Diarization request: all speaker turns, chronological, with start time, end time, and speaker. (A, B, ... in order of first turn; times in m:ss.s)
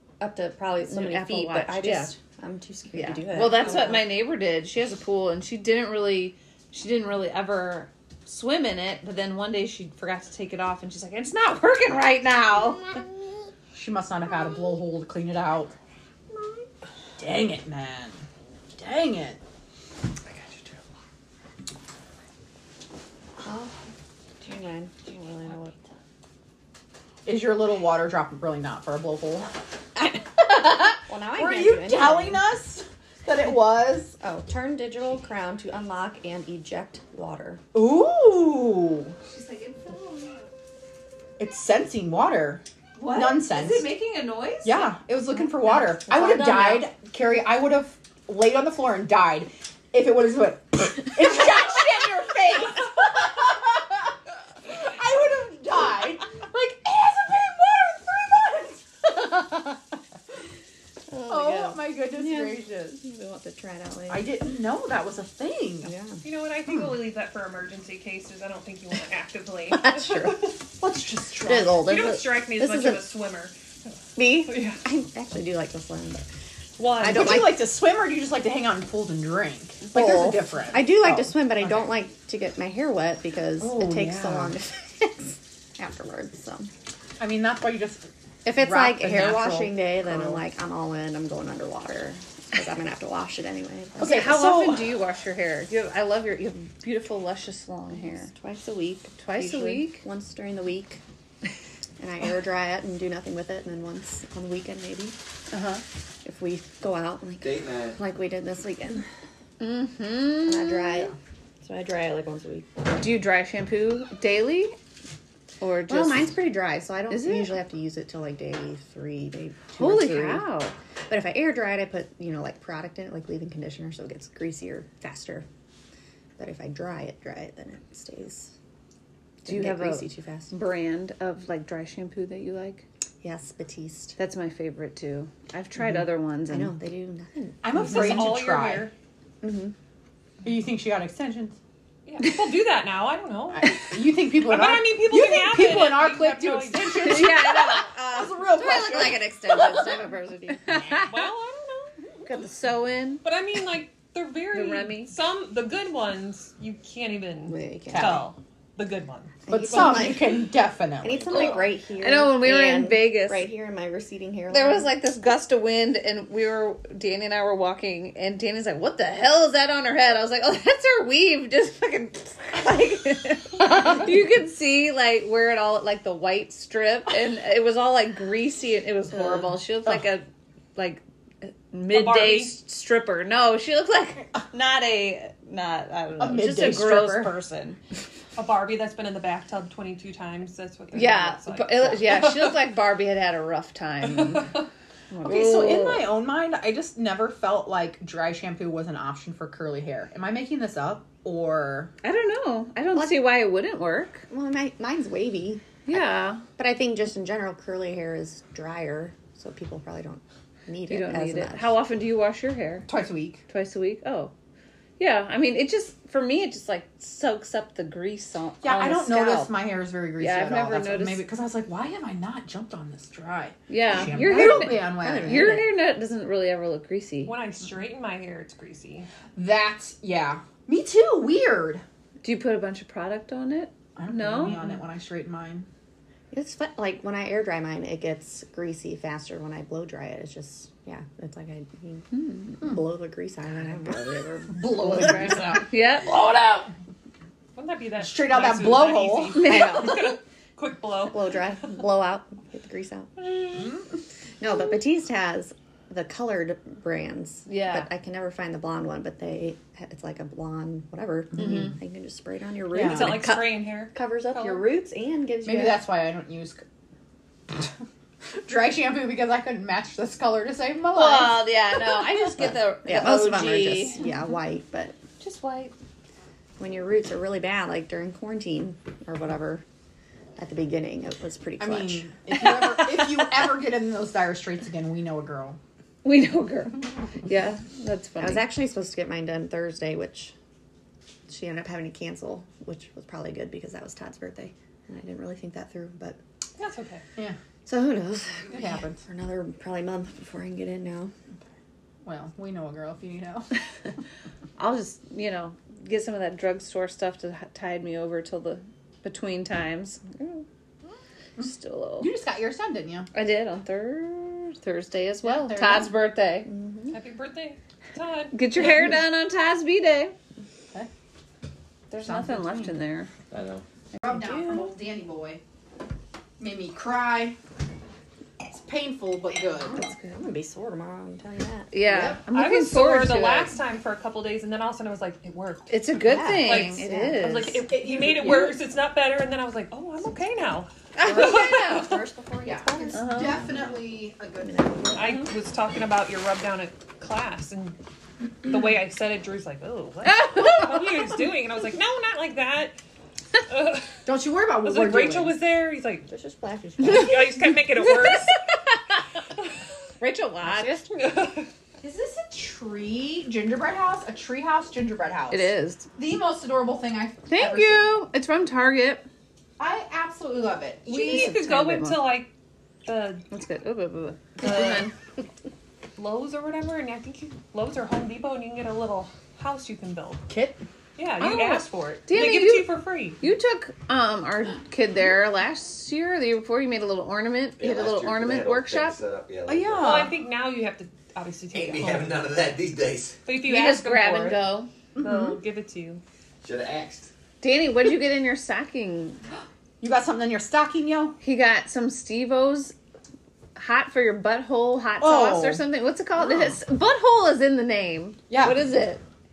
0:00.2-0:04.0 A
0:00.9-0:02.2 B
0:02.9-0:13.0 B
0:13.7-0:15.7 C
0:17.2-0:18.2 C
0:18.8-0:19.4 C
0:23.4-0:23.8 A
0:24.4-0:25.9 A
0:27.2-0:29.5 C
0:30.7-0:34.2 C
0:31.0-0:32.5 A
0:34.2-0:37.6 A
0:37.7-0:39.2 C
0:39.2-0:40.5 B
0:41.4-0:44.0 C
0:43.0-0:45.0 B
0:44.6-0:59.8 C
0:45.7-0:46.9 A
1:01.2-1:04.3 A
1:01.3-1:03.0 C
1:04.1-1:05.9 C
1:05.8-1:06.2 A
1:06.2-1:10.5 D
1:09.7-1:10.6 A
1:10.7-1:11.8 C
1:11.4-1:13.1 A
1:11.7-1:13.6 D
1:14.2-1:16.3 A
1:14.3-1:14.8 D
1:16.8-1:17.4 D
1:16.9-1:17.7 A
1:17.0-1:21.9 C
1:19.8-1:26.7 A
1:23.6-1:24.5 C
1:27.2-1:30.4 C
1:28.4-1:34.4 A
1:34.0-1:34.9 C
1:34.0-1:38.3 B
1:37.9-1:41.0 A
1:39.2-1:40.0 B
1:42.0-1:45.2 A
1:45.5-1:45.8 B
1:46.2-1:49.0 A
1:47.4-1:48.0 E
1:49.6-1:51.1 B
1:50.4-1:52.7 A
1:52.9-1:54.8 B
1:55.6-1:56.4 B
1:55.9-2:00.5 A
1:57.1-1:57.5 B
1:59.8-2:00.7 B
2:01.1-2:05.5 A
2:06.4-2:08.5 A
2:09.4-2:10.5 A
2:09.4-2:12.8 B
2:13.2-2:14.2 A
2:14.2-2:16.7 B
2:16.5-2:18.0 A
2:17.6-2:18.9 C
2:17.8-2:18.9 D
2:19.4-2:19.8 A
2:20.4-2:21.6 C
2:22.1-2:27.4 D
2:23.7-2:29.7 C
2:26.9-2:31.2 B
2:28.6-2:31.1 A
2:31.1-2:31.9 D
2:32.3-2:33.2 B
2:33.2-2:39.5 D
2:34.5-2:35.1 B
2:37.5-2:38.3 A
2:37.9-2:38.3 C
2:39.5-2:44.9 A
2:39.5-2:41.6 C
2:41.3-2:43.5 B
2:44.5-3:00.2 B
3:00.8-3:07.8 B
3:01.9-3:02.6 D
3:06.2-3:07.4 C
3:08.4-3:12.6 D
3:10.9-3:14.5 B
3:14.1-3:14.6 D
3:15.1-3:16.1 B
3:15.2-3:21.9 C
3:22.0-3:24.3 B
3:22.9-3:23.3 A
3:24.3-3:26.0 A
3:25.9-3:26.4 B
3:26.6-3:31.8 A
3:30.9-3:32.9 B
3:32.9-3:33.4 C
3:33.5-3:34.3 B
3:35.0-3:39.6 B
3:38.6-3:45.6 C
3:40.2-3:41.2 B
3:43.7-3:47.4 B
3:44.1-3:45.8 A
3:47.2-3:49.1 D
3:49.4-3:51.8 C
3:52.2-3:54.6 B
3:54.0-3:55.7 C
3:56.3-4:05.6 A
4:02.1-4:02.6 B
4:04.5-4:06.7 C
4:04.8-4:06.2 B
4:07.6-4:11.4 D
4:08.0-4:09.8 C
4:09.4-4:10.0 A
4:09.5-4:09.9 B
4:11.0-4:13.6 A
4:13.5-4:13.9 C
4:14.4-4:25.9 A
4:17.5-4:17.9 B
4:21.4-4:21.7 B
4:22.7-4:23.2 C
4:22.8-4:24.7 D
4:25.4-4:26.6 C
4:28.4-4:32.1 C
4:30.9-4:34.0 B
4:32.8-4:35.0 A
4:35.2-4:35.7 D
4:36.6-4:39.6 A
4:40.4-4:42.1 A
4:41.6-4:45.6 C
4:46.0-4:48.5 B
4:48.2-4:50.3 A
4:51.3-4:56.2 A
4:56.6-4:57.0 D
4:57.6-5:01.1 A
4:58.5-4:59.0 C
5:02.0-5:03.5 C
5:04.6-5:10.5 B
5:11.4-5:12.1 B
5:11.4-5:13.1 C
5:13.1-5:16.5 B
5:15.2-5:16.0 C
5:16.5-5:16.9 A
5:16.9-5:18.4 D
5:18.3-5:20.1 B
5:21.9-5:23.1 B
5:22.0-5:22.7 C
5:23.3-5:23.6 E
5:23.9-5:24.7 B
5:24.0-5:25.4 C
5:26.4-5:27.4 C
5:28.5-5:29.9 C
5:29.4-5:31.7 A
5:31.7-5:33.6 B
5:31.9-5:32.2 C
5:32.3-5:35.8 D
5:35.7-5:37.7 B
5:36.0-5:37.5 A
5:36.4-5:42.0 D
5:37.6-5:38.6 C
5:41.0-5:42.0 B
5:41.0-5:43.2 A
5:41.0-5:45.0 C
5:42.9-5:43.4 B
5:44.4-5:45.2 A
5:44.9-5:47.8 D
5:48.4-5:52.8 D
5:50.3-5:50.7 B
5:53.5-5:54.0 D
5:54.1-5:55.4 C
5:54.6-5:56.1 D
5:56.1-5:57.3 A
5:56.8-5:58.4 D
6:00.0-6:00.8 B
6:00.9-6:01.5 D
6:01.8-6:08.0 C
6:05.3-6:05.9 B
6:07.3-6:09.0 B
6:09.6-6:11.3 C
6:10.9-6:12.2 B
6:10.9-6:12.3 D
6:12.8-6:13.3 D
6:13.3-6:14.9 B
6:14.4-6:14.9 D
6:16.0-6:20.2 D
6:20.3-6:20.6 C
6:21.0-6:23.2 D
6:21.2-6:29.0 B
6:27.6-6:30.1 E
6:29.5-6:30.2 C
6:29.8-6:32.2 D
6:31.5-6:33.2 E
6:33.3-6:36.0 D
6:33.4-6:34.7 B
6:35.0-6:35.4 C
6:36.4-6:37.1 E
6:37.4-6:39.2 B
6:39.8-6:41.2 C
6:41.2-6:42.8 B
6:43.6-6:49.0 B
6:45.0-6:45.7 C
6:48.3-6:48.6 C